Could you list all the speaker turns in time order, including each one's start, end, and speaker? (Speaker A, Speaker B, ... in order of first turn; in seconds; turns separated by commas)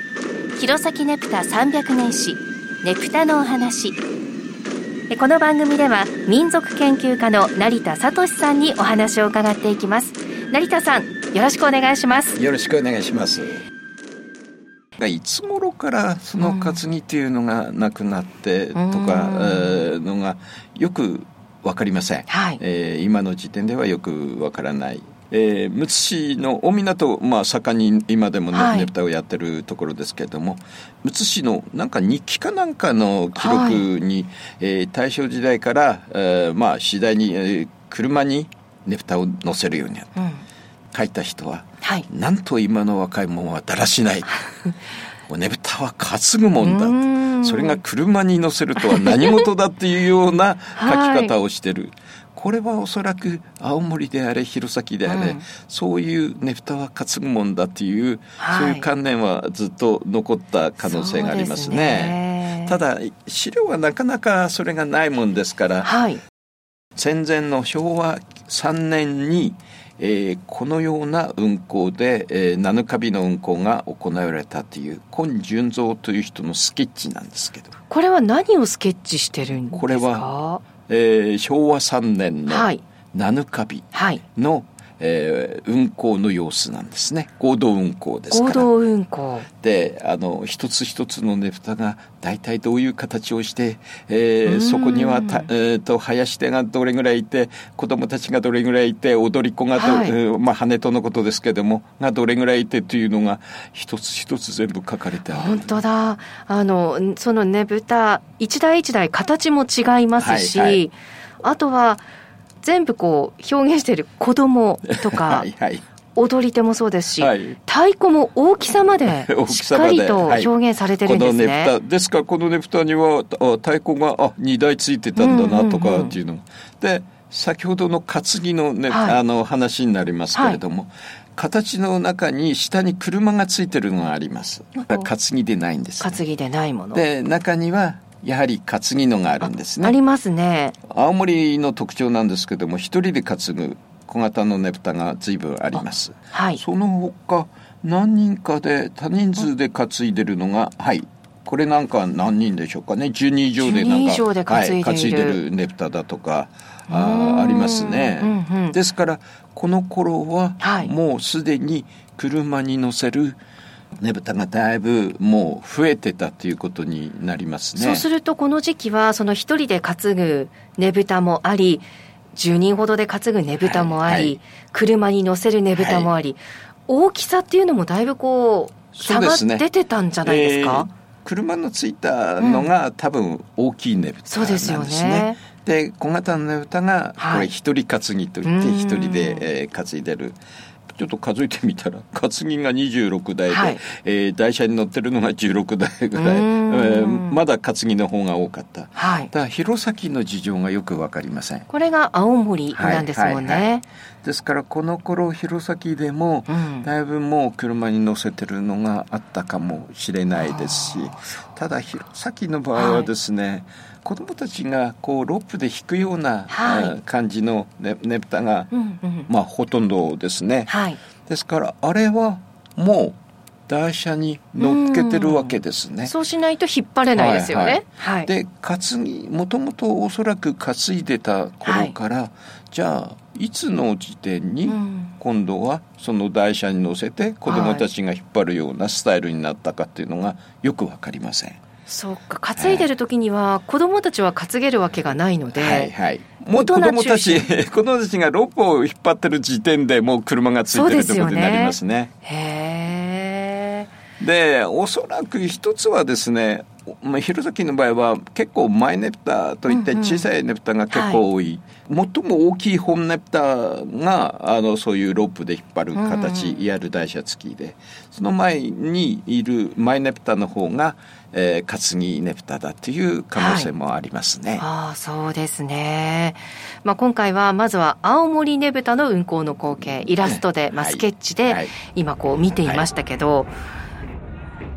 Speaker A: 0.6-4.0, Speaker A: 5.1-12.4, Speaker B: 12.4-13.6, Speaker B: 15.0-40.2, Speaker A: 16.4-16.8, Speaker A: 18.7-19.9, Speaker A: 22.3-22.6, Speaker A: 28.5-28.9, Speaker A: 33.4-33.9, Speaker A: 40.2-40.4, Speaker B: 40.9-44.4, Speaker B: 45.3-65.9, Speaker A: 46.6-47.8, Speaker A: 48.8-49.4, Speaker A: 50.8-51.3, Speaker A: 55.1-55.4, Speaker A: 58.4-58.9, Speaker A: 60.8-62.8, Speaker A: 65.8-66.2, Speaker B: 67.0-77.7, Speaker A: 77.9-80.6, Speaker B: 79.7-80.3, Speaker B: 80.9-88.7, Speaker A: 82.5-82.8, Speaker A: 83.9-84.2, Speaker A: 88.3-89.5, Speaker B: 89.6-105.8, Speaker A: 94.5-95.5, Speaker A: 99.8-100.2, Speaker A: 105.3-112.0, Speaker B: 110.2-110.8, Speaker A: 112.6-115.5, Speaker B: 114.9-115.8, Speaker A: 116.2-121.7, Speaker B: 117.2-117.6, Speaker B: 119.0-120.5, Speaker B: 121.0-136.2, Speaker A: 125.2-126.2, Speaker A: 128.9-129.2, Speaker A: 130.3-130.6, Speaker A: 134.8-135.1, Speaker A: 136.0-137.0, Speaker B: 136.9-140.0, Speaker A: 139.4-140.8, Speaker B: 140.9-163.4, Speaker A: 146.3-146.6, Speaker A: 153.6-155.4, Speaker A: 156.9-158.8, Speaker A: 160.6-160.9, Speaker B: 164.0-168.1, Speaker A: 167.8-180.9, Speaker B: 173.6-174.4, Speaker B: 175.8-176.1, Speaker B: 179.0-179.7, Speaker B: 180.2-190.4, Speaker A: 182.4-182.7, Speaker A: 184.3-185.4, Speaker A: 187.2-187.5, Speaker A: 188.4-189.5, Speaker B: 190.9-201.7, Speaker A: 193.5-193.8, Speaker A: 196.2-197.4, Speaker A: 199.0-199.3, Speaker A: 201.7-203.8, Speaker B: 202.7-203.7, Speaker B: 204.2-218.7, Speaker A: 206.5-206.9, Speaker A: 210.4-211.3, Speaker A: 212.7-213.1, Speaker A: 216.5-216.9, Speaker A: 218.7-219.3, Speaker B: 219.3-220.7, Speaker A: 220.7-221.0, Speaker B: 221.2-223.2, Speaker B: 223.7-226.1, Speaker A: 224.6-228.3, Speaker B: 227.2-241.6, Speaker A: 231.6-231.9, Speaker A: 234.7-235.1, Speaker A: 237.5-237.9, Speaker A: 241.9-245.9, Speaker B: 242.6-242.9, Speaker B: 245.6-252.1, Speaker A: 246.5-247.5, Speaker A: 250.7-253.9, Speaker B: 254.2-274.6, Speaker A: 259.7-260.2, Speaker A: 260.9-261.2, Speaker A: 265.9-266.6, Speaker A: 273.4-273.7, Speaker A: 274.6-283.5, Speaker B: 280.2-281.7